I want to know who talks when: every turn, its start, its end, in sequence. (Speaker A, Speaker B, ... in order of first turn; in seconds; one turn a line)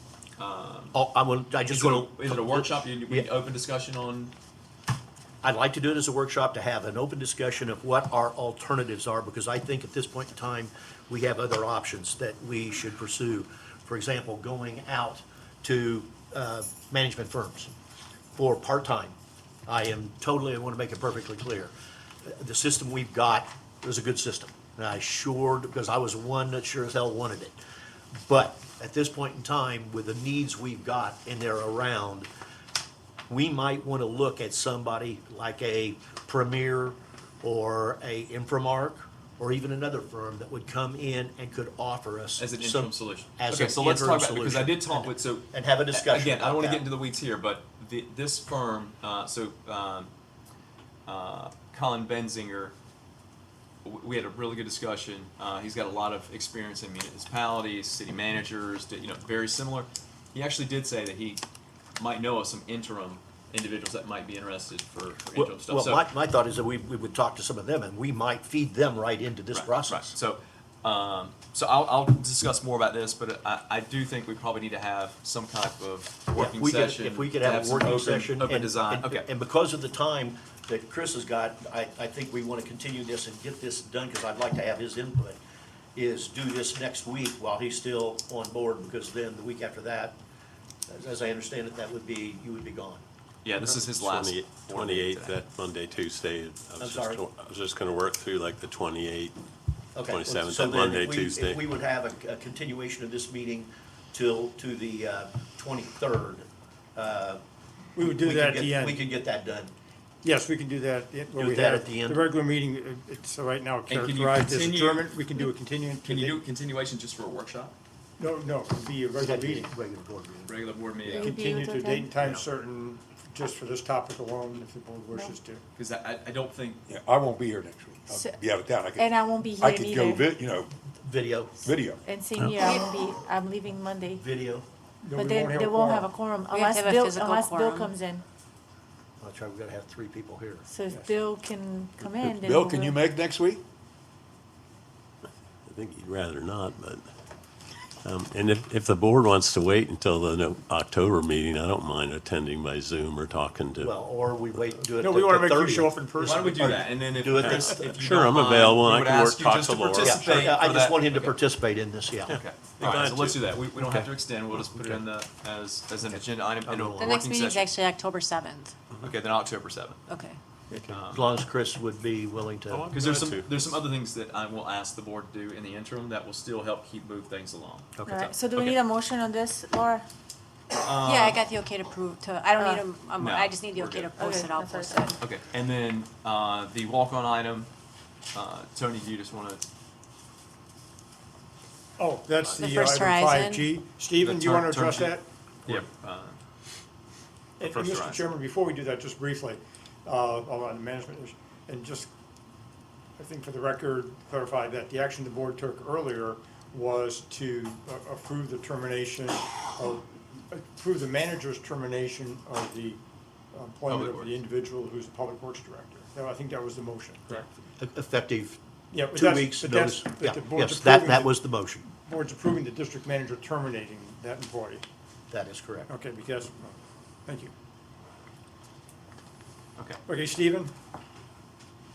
Speaker A: 0.4-1.0
Speaker B: 0.9-3.3
Speaker A: 1.6-4.3
Speaker B: 5.4-17.7
Speaker B: 18.3-19.1
Speaker B: 19.7-21.7
Speaker B: 22.2-27.6
Speaker B: 28.2-32.3
Speaker B: 33.3-46.9
Speaker A: 42.4-50.1
Speaker A: 51.0-52.7
Speaker A: 53.8-61.4
Speaker A: 62.0-66.0
Speaker B: 65.3-70.1
Speaker A: 69.5-79.2
Speaker B: 76.3-85.4
Speaker B: 85.9-90.2
Speaker B: 90.9-93.0
Speaker A: 93.4-95.4
Speaker C: 93.5-99.3
Speaker B: 96.8-97.2
Speaker B: 99.9-107.4
Speaker C: 100.0-101.6
Speaker B: 108.0-109.7
Speaker D: 108.0-109.0
Speaker D: 110.2-116.4
Speaker B: 111.3-112.3
Speaker A: 113.9-117.7
Speaker D: 118.2-119.7
Speaker B: 119.2-120.5
Speaker A: 120.5-121.3
Speaker D: 121.1-125.6
Speaker E: 121.2-122.2
Speaker E: 125.1-125.4
Speaker A: 125.7-126.8
Speaker F: 126.9-130.7
Speaker E: 128.1-128.4
Speaker E: 128.9-130.3
Speaker B: 131.0-131.6
Speaker F: 131.6-132.0
Speaker E: 132.0-134.2
Speaker B: 134.1-134.6
Speaker D: 135.0-136.1
Speaker E: 135.2-138.2
Speaker G: 136.5-137.9
Speaker B: 139.2-140.6
Speaker E: 140.7-143.0
Speaker F: 142.0-143.6
Speaker C: 145.7-147.1
Speaker C: 148.0-154.0
Speaker B: 153.8-157.7
Speaker D: 155.0-157.9
Speaker A: 156.2-161.4
Speaker C: 157.4-160.5
Speaker B: 160.0-162.9
Speaker A: 162.3-167.8
Speaker C: 162.3-164.1
Speaker C: 164.6-165.0
Speaker B: 166.6-167.2
Speaker G: 167.0-168.7
Speaker A: 169.0-170.0
Speaker G: 170.1-170.4
Speaker A: 170.9-171.2
Speaker B: 171.1-172.9
Speaker C: 172.7-173.8
Speaker A: 172.9-178.8
Speaker E: 178.1-180.0
Speaker A: 180.8-181.4
Speaker G: 181.0-185.2
Speaker E: 182.6-182.8
Speaker A: 183.2-184.1
Speaker E: 184.2-185.1
Speaker A: 185.2-187.7
Speaker A: 188.3-189.6
Speaker D: 192.0-195.8
Speaker G: 192.5-193.7
Speaker A: 194.2-195.1
Speaker A: 195.7-196.4
Speaker D: 197.6-202.1
Speaker A: 197.6-198.3
Speaker D: 203.2-213.0
Speaker D: 213.5-217.4
Speaker A: 213.9-214.4
Speaker B: 217.3-221.8
Speaker D: 218.9-221.4
Speaker D: 222.0-224.8
Speaker B: 225.3-225.8
Speaker D: 225.9-227.5
Speaker D: 230.1-230.7